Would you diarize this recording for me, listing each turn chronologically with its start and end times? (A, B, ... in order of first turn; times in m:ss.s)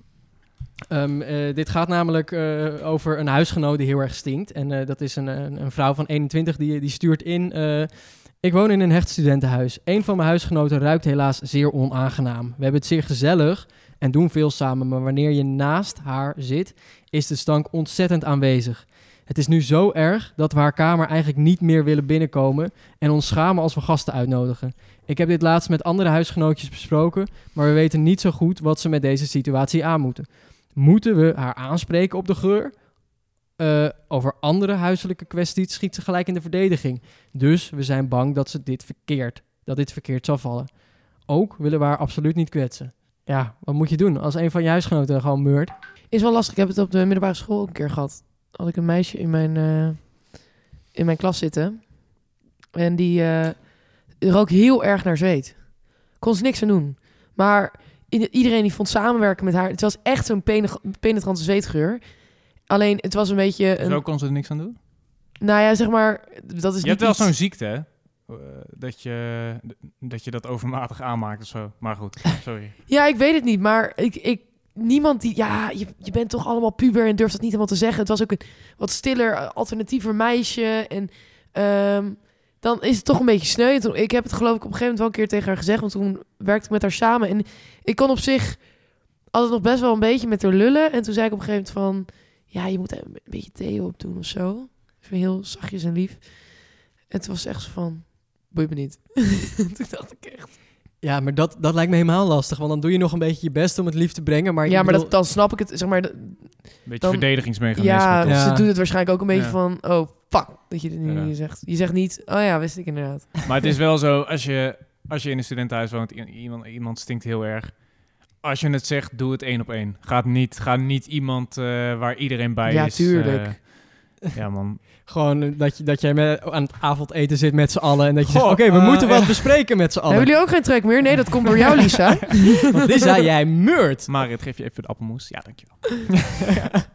0:00.9-0:45.7 A
0:46.1-1:04.0 B
1:03.8-1:04.8 C
1:05.4-1:07.3 B
1:06.8-1:12.8 C
1:12.9-1:40.6 B
1:41.0-1:45.1 A
1:44.6-1:53.5 B
1:46.8-1:49.6 C
1:48.3-1:48.7 A
1:51.1-1:51.3 C
1:53.5-2:04.8 C
2:02.7-2:03.6 B
2:05.0-2:10.8 A
2:08.2-2:09.5 C
2:10.1-2:12.6 B
2:12.7-2:14.1 A
2:14.1-2:16.5 C